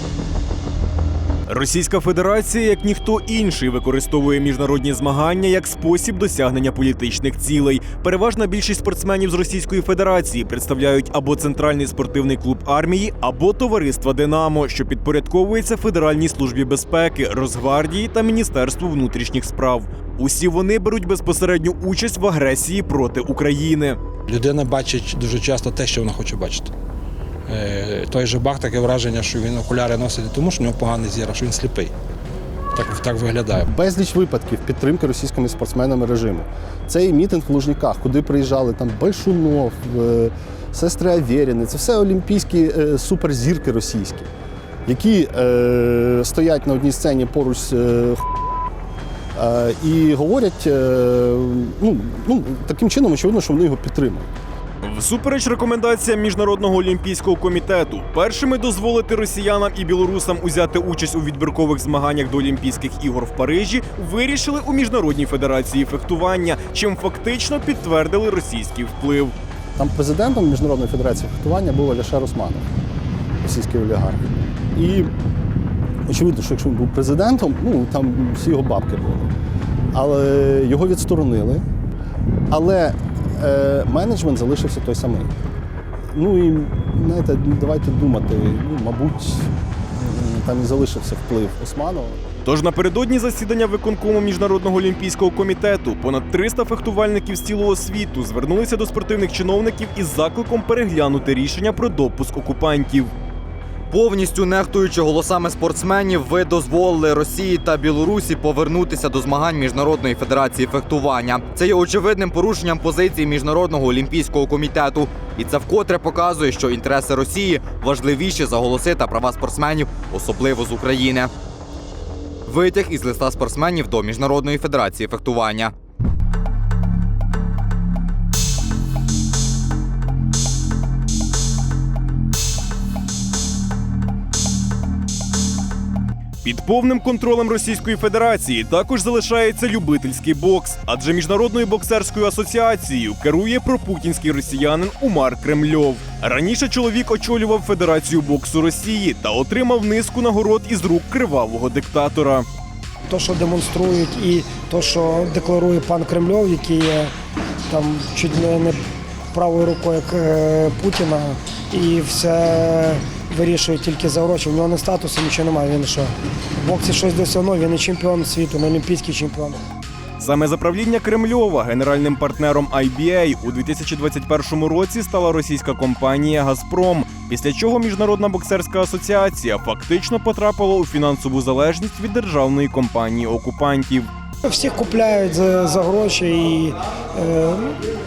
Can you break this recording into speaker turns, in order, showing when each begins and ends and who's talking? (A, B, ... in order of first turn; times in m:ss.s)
0:01.5-0:24.0 A
0:24.3-0:26.7 B
0:27.5-0:31.9 B
0:32.7-0:33.7 B
0:33.7-0:44.3 C
0:44.9-0:48.2 C
0:49.4-0:54.3 C
0:54.8-1:09.3 A
1:09.8-1:12.7 C
1:13.4-1:15.1 C
1:16.1-1:19.3 C
1:19.9-1:21.6 C
1:22.5-1:25.3 C
1:26.1-1:32.2 C
1:32.4-1:43.1 A
1:43.9-2:01.3 D
2:02.5-2:05.7 D
2:16.4-2:32.5 A
2:33.1-2:37.1 E
2:37.7-2:38.8 E
2:39.4-2:46.1 E
2:46.6-2:49.6 E
2:50.2-3:04.1 A
3:04.5-3:07.5 E